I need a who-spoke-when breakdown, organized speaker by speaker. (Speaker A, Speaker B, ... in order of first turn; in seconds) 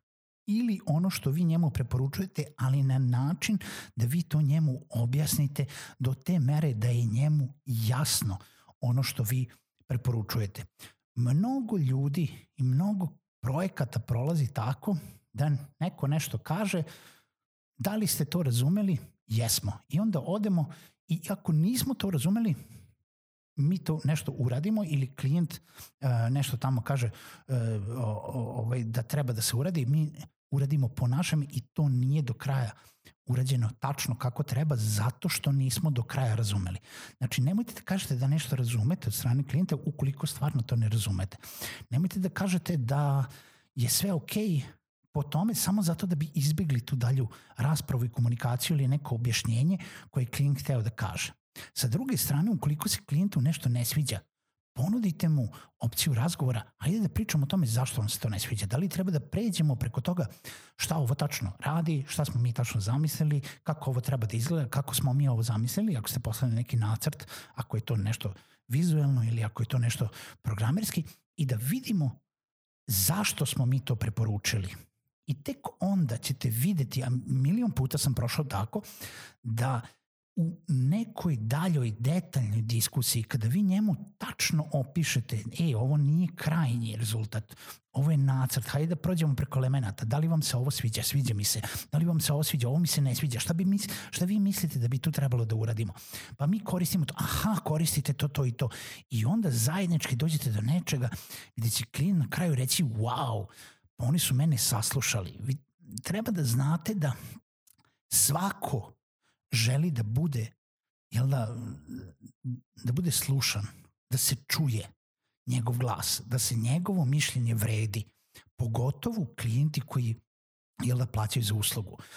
Speaker A: 0.5-16.9, 17.8-22.6, 23.6-32.8, 33.2-72.2, 72.9-74.8, 75.3-78.8, 79.4-107.2, 108.1-109.0, 109.5-110.5, 111.1-114.9, 115.5-120.2, 120.8-122.0